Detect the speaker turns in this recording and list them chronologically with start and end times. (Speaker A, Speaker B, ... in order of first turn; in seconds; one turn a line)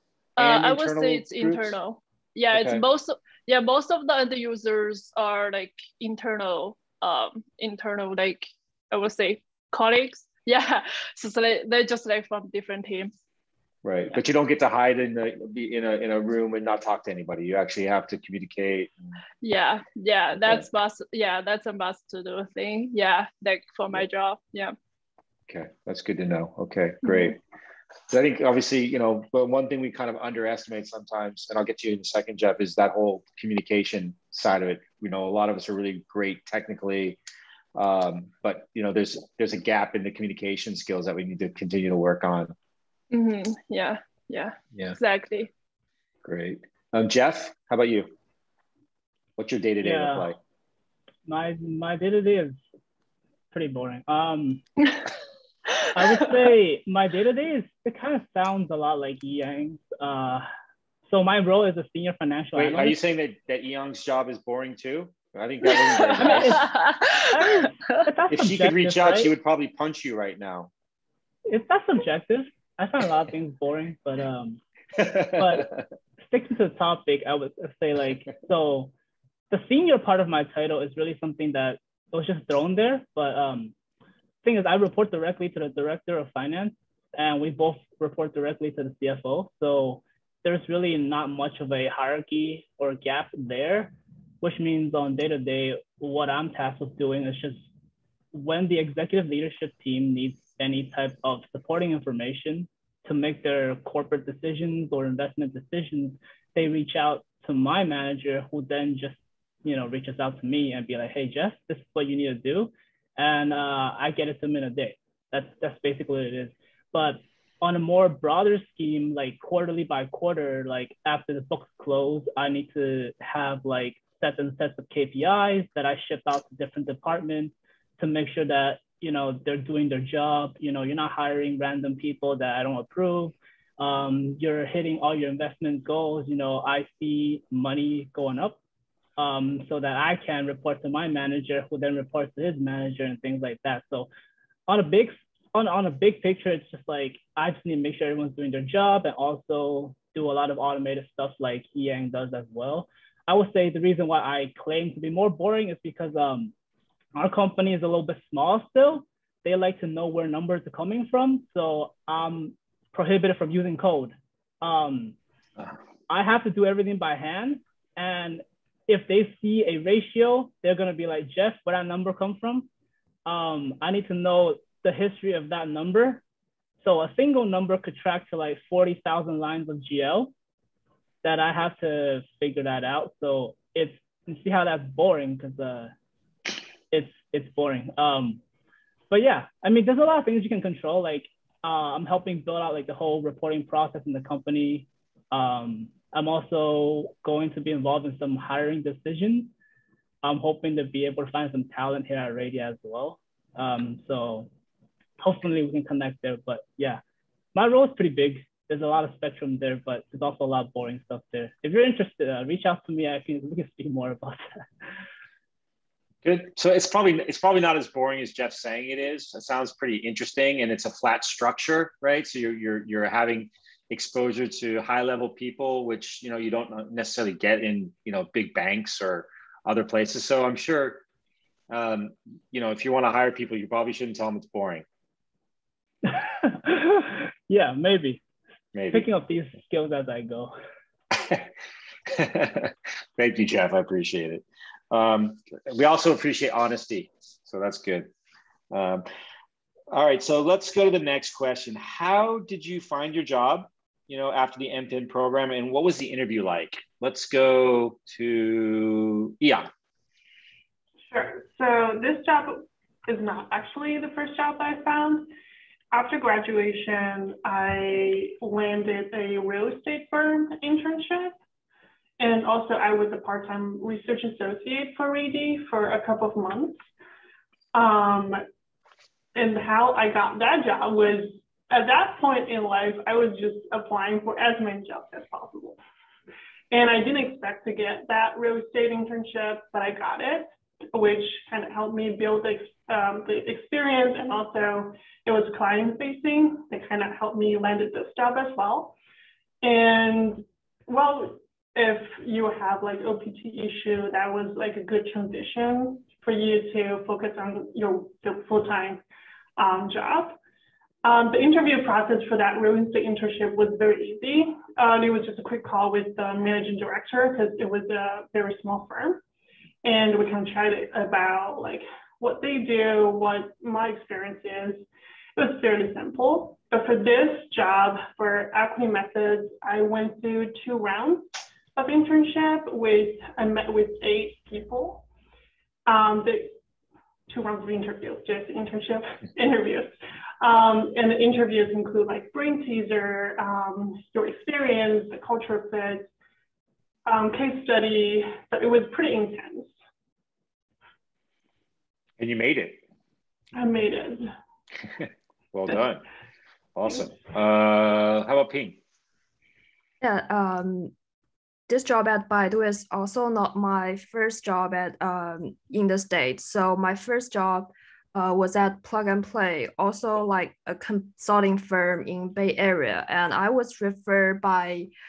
Speaker A: 0.4-1.8
Speaker B: 0.4-13.1
Speaker A: 2.5-2.8
Speaker A: 13.8-19.1
Speaker B: 19.4-24.8
Speaker A: 25.5-27.4
Speaker B: 27.1-27.3
Speaker A: 28.1-37.2
Speaker A: 37.8-42.5
Speaker B: 43.1-45.5
Speaker A: 46.2-48.1
Speaker A: 49.4-50.4
Speaker C: 49.8-50.4
Speaker C: 51.3-52.6
Speaker C: 53.5-54.6
Speaker C: 56.0-60.5
Speaker C: 61.1-63.0
Speaker A: 62.6-66.7
Speaker B: 65.7-68.0
Speaker C: 66.2-66.7
Speaker C: 67.3-69.3
Speaker A: 68.3-70.7
Speaker C: 71.5-74.6
Speaker A: 75.0-75.8
Speaker C: 75.4-75.7
Speaker C: 76.2-78.9
Speaker C: 79.5-83.7
Speaker C: 84.4-97.6
Speaker C: 98.3-138.6
Speaker C: 139.2-144.1
Speaker C: 144.7-156.5
Speaker C: 157.2-165.2
Speaker C: 166.1-172.7
Speaker C: 173.3-176.2
Speaker C: 176.8-180.3
Speaker C: 181.2-185.9
Speaker C: 186.9-188.4
Speaker C: 189.1-199.5
Speaker C: 200.2-204.5
Speaker C: 205.2-207.0
Speaker C: 207.6-214.5
Speaker A: 216.2-231.1
Speaker A: 231.7-234.8
Speaker C: 236.1-238.2
Speaker A: 238.7-239.1
Speaker C: 238.9-240.5
Speaker A: 241.2-241.5
Speaker A: 242.1-248.1
Speaker A: 248.7-249.1
Speaker A: 249.9-259.7
Speaker D: 261.1-265.3
Speaker D: 265.9-271.4
Speaker D: 272.2-276.8
Speaker D: 277.7-278.4
Speaker D: 279.4-285.8
Speaker D: 286.7-299.0
Speaker D: 299.6-309.0
Speaker D: 309.6-310.4
Speaker D: 311.0-319.2
Speaker D: 319.8-335.1
Speaker D: 335.9-336.5
Speaker D: 337.3-346.1
Speaker D: 347.1-349.7
Speaker A: 352.2-352.8
Speaker D: 353.6-354.3
Speaker A: 355.0-356.1
Speaker A: 356.8-358.8
Speaker E: 360.0-360.9
Speaker E: 361.7-374.9